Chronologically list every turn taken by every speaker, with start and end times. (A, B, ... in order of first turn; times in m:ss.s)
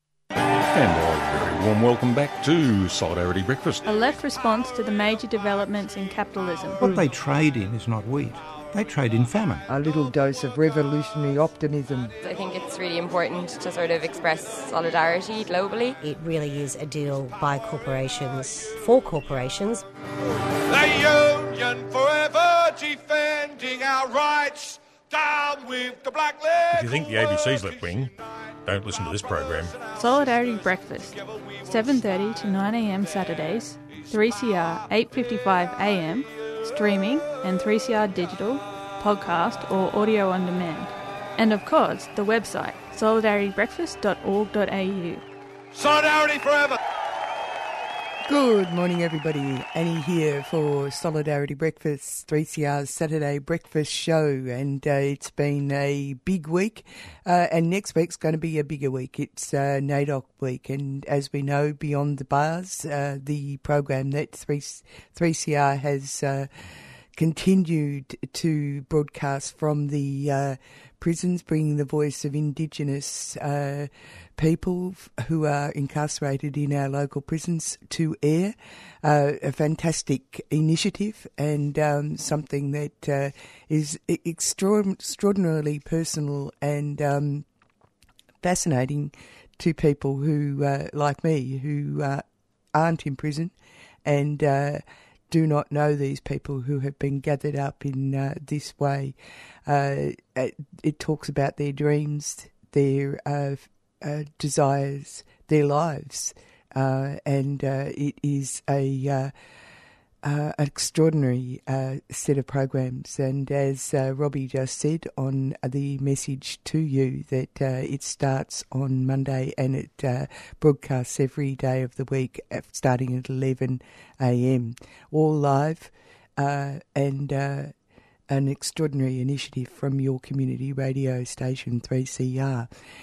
0:00.7-0:03.8 A
0:03.8-0:06.8 B
0:06.8-0:09.6 C
0:09.7-0:12.1 D
0:12.2-0:15.9 E
0:16.0-0:19.8 F
0:20.6-0:28.1 G
0:26.7-0:28.1 A
0:28.7-0:29.7 A
0:29.7-0:30.0 G
0:29.9-0:45.2 B
0:31.1-0:31.7 G
0:45.7-0:46.8 G
0:48.2-1:06.5 D
1:07.2-1:27.4 D
1:28.4-1:33.5 D
1:34.0-1:39.1 D
1:39.6-1:49.3 D
1:50.2-2:07.7 D
2:08.3-2:12.7 D